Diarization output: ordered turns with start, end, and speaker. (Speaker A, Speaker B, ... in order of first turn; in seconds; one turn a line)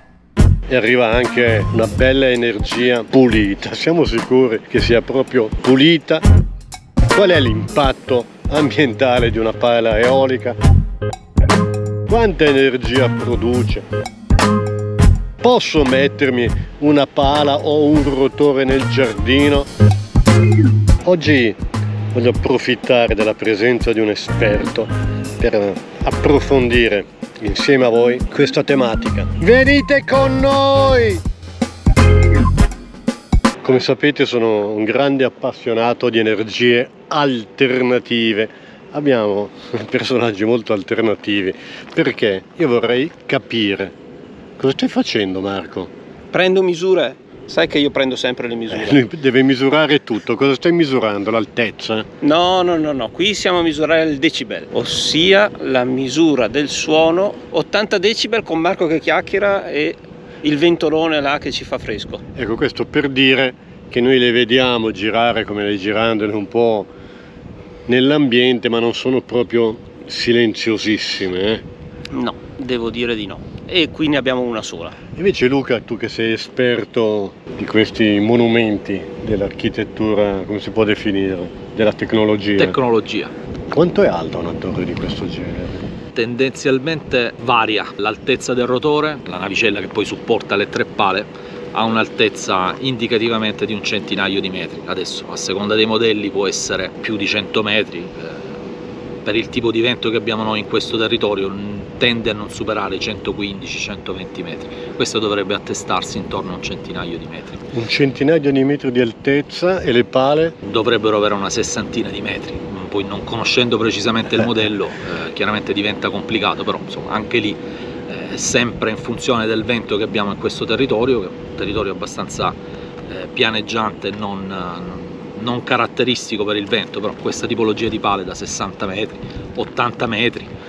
Speaker A: 0.7-6.2
Speaker A: 7.1-10.6
Speaker A: 12.1-13.8
Speaker A: 15.4-19.7
Speaker A: 21.0-21.6
Speaker A: 22.1-31.2
Speaker A: 33.6-44.0
Speaker A: 44.6-45.9
Speaker B: 46.3-49.0
Speaker A: 48.7-52.0
Speaker B: 52.2-62.2
Speaker A: 62.3-66.9
Speaker A: 67.9-71.6
Speaker B: 72.1-75.0
Speaker A: 75.2-82.8
Speaker C: 82.6-83.3
Speaker A: 83.7-85.8
Speaker C: 86.2-98.7
Speaker C: 99.2-107.7
Speaker A: 107.7-110.5
Speaker C: 110.6-130.5